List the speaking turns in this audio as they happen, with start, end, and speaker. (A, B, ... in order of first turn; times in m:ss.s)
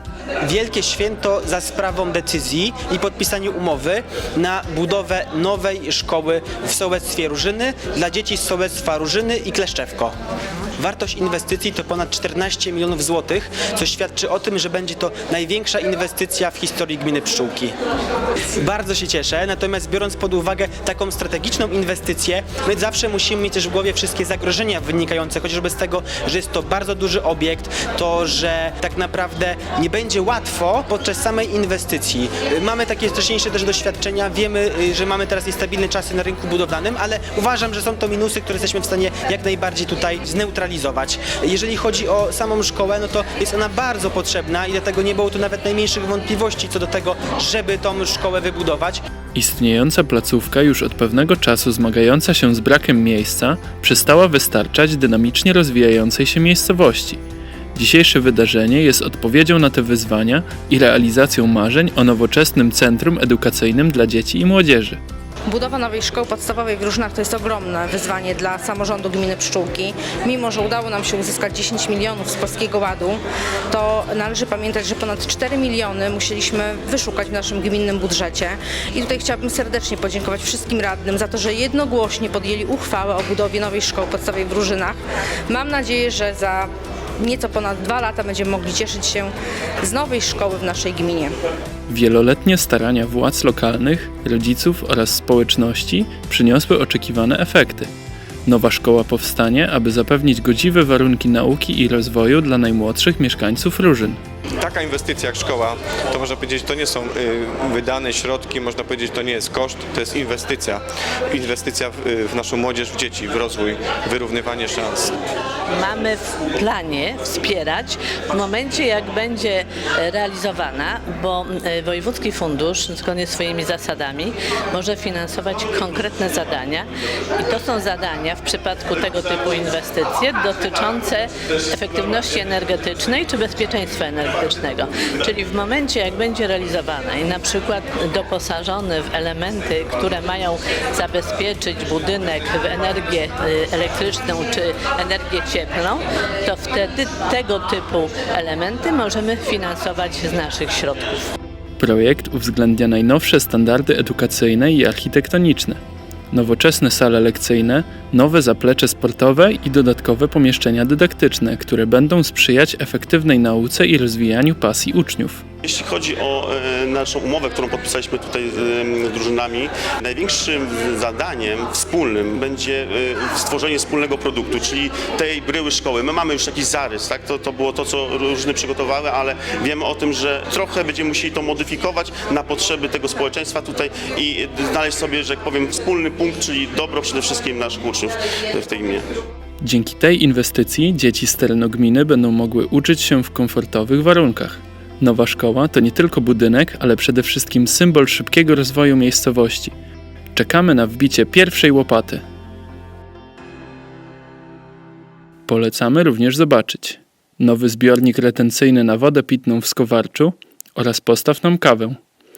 0:00.4-0:10.1 A
0:10.8-0:17.7 A
0:18.6-0:49.0 A
0:49.3-0:57.2 B
0:57.7-1:05.0 B
1:05.5-1:25.0 C
1:25.5-1:29.3 C
1:29.8-1:31.3 C
1:31.9-1:37.9 B
1:38.4-1:44.2 B
1:44.6-1:55.1 D
1:55.7-2:31.2 E
2:31.8-2:35.8 B
2:36.3-2:45.4 B
2:45.6-3:09.0 F
3:09.6-3:19.7 B
3:20.3-3:22.2 B
3:25.5-3:32.0 B